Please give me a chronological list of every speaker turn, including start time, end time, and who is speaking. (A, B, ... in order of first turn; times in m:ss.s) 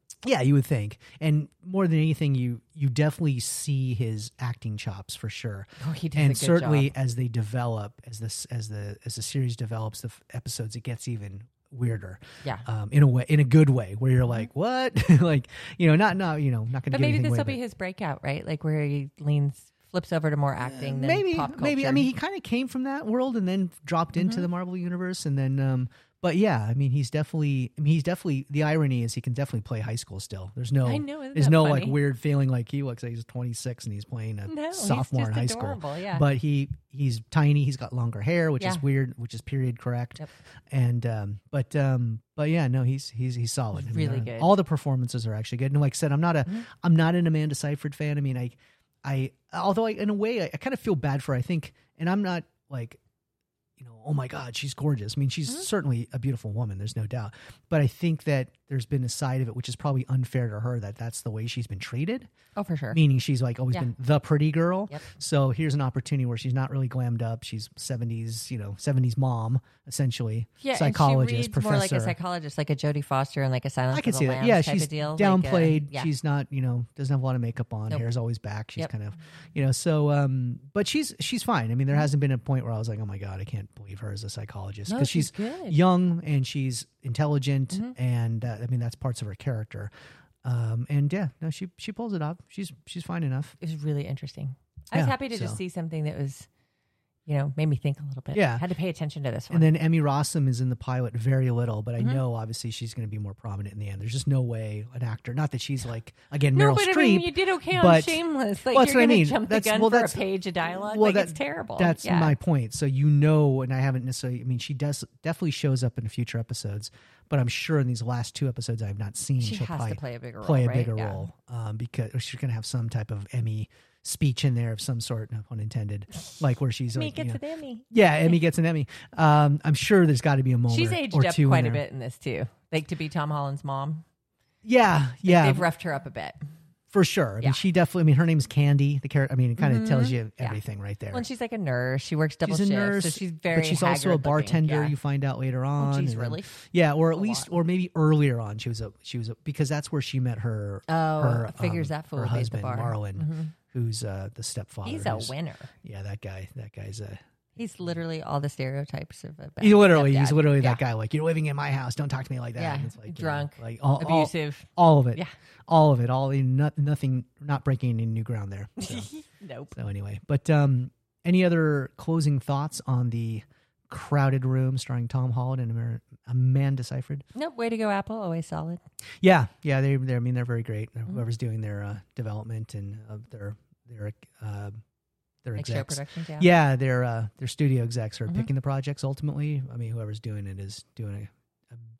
0:00.2-0:17.6 A
0:05.8-0:06.9 B
0:16.9-0:22.1 B
0:20.6-0:53.0 A
0:24.1-0:24.5 B
0:30.8-0:32.0 B
0:34.5-0:36.3 B
0:38.6-0:38.8 B
0:43.7-0:44.5 B
0:53.8-1:02.3 A
1:02.6-1:03.0 B
1:02.9-1:12.2 A
1:10.6-1:16.1 B
1:13.9-1:29.9 A
1:24.9-1:25.8 B
1:30.4-1:33.5 A
1:33.6-1:36.5 B
1:34.9-1:35.6 A
1:37.2-1:39.7 B
1:38.3-1:38.6 A
1:39.5-2:11.8 A
1:46.5-1:52.4 B
1:59.4-2:01.3 B
2:06.9-2:08.3 B
2:10.7-2:14.0 B
2:14.6-2:15.7 A
2:15.2-2:16.4 B
2:16.9-2:21.2 A
2:19.6-2:20.6 B
2:21.1-2:25.0 B
2:22.4-2:38.0 A
2:25.8-2:26.6 B
2:27.1-2:27.5 B
2:30.9-2:33.5 B
2:34.8-2:35.7 B
2:37.6-2:40.8 B
2:39.6-2:49.1 A
2:42.6-2:45.3 B
2:48.8-2:49.7 B
2:49.7-2:57.2 A
2:57.3-2:58.8 B
2:59.2-3:04.8 A
3:05.4-3:11.8 A
3:05.6-3:06.5 B